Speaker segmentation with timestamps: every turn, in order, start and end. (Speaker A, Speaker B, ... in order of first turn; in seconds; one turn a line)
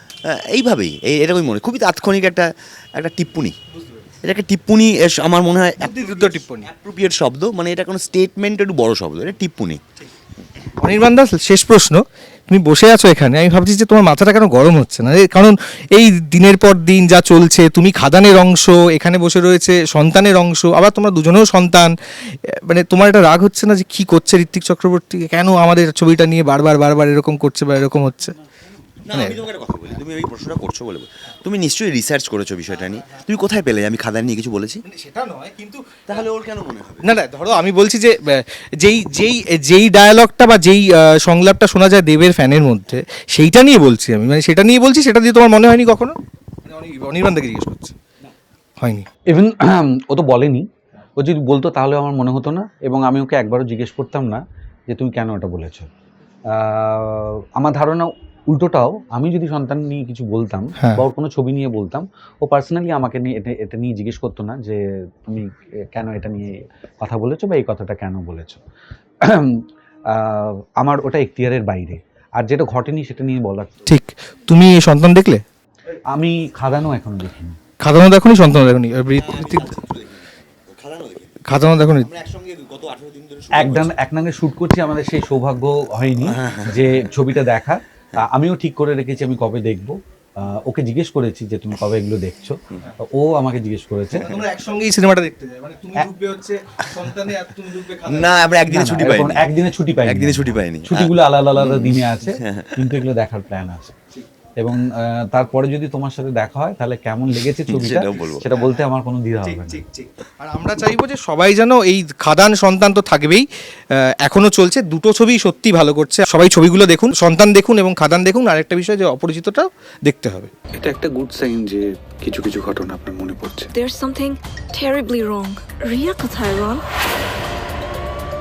Speaker A: 0.5-3.6
Speaker B: 3.8-4.0
Speaker A: 4.2-9.8
Speaker B: 5.8-6.7
Speaker B: 10.8-28.4
Speaker A: 29.1-34.8
Speaker B: 29.1-29.4
Speaker B: 34.9-36.0
Speaker A: 36.1-37.0
Speaker B: 37.0-48.0
Speaker B: 48.8-49.0
Speaker C: 49.3-50.6
Speaker C: 51.2-55.9
Speaker C: 56.5-68.6
Speaker C: 69.2-73.8
Speaker B: 73.9-75.4
Speaker C: 76.1-77.6
Speaker B: 77.8-79.7
Speaker A: 79.2-84.0
Speaker B: 81.5-82.1
Speaker C: 83.6-92.6
Speaker A: 86.3-86.8
Speaker C: 93.1-94.4
Speaker B: 94.2-98.4
Speaker A: 98.0-99.5
Speaker C: 98.7-103.9
Speaker A: 100.0-103.0
Speaker C: 104.6-109.8
Speaker A: 107.7-108.5
Speaker B: 108.5-108.8
Speaker B: 109.4-120.5
Speaker D: 120.8-123.7
Speaker E: 123.7-126.8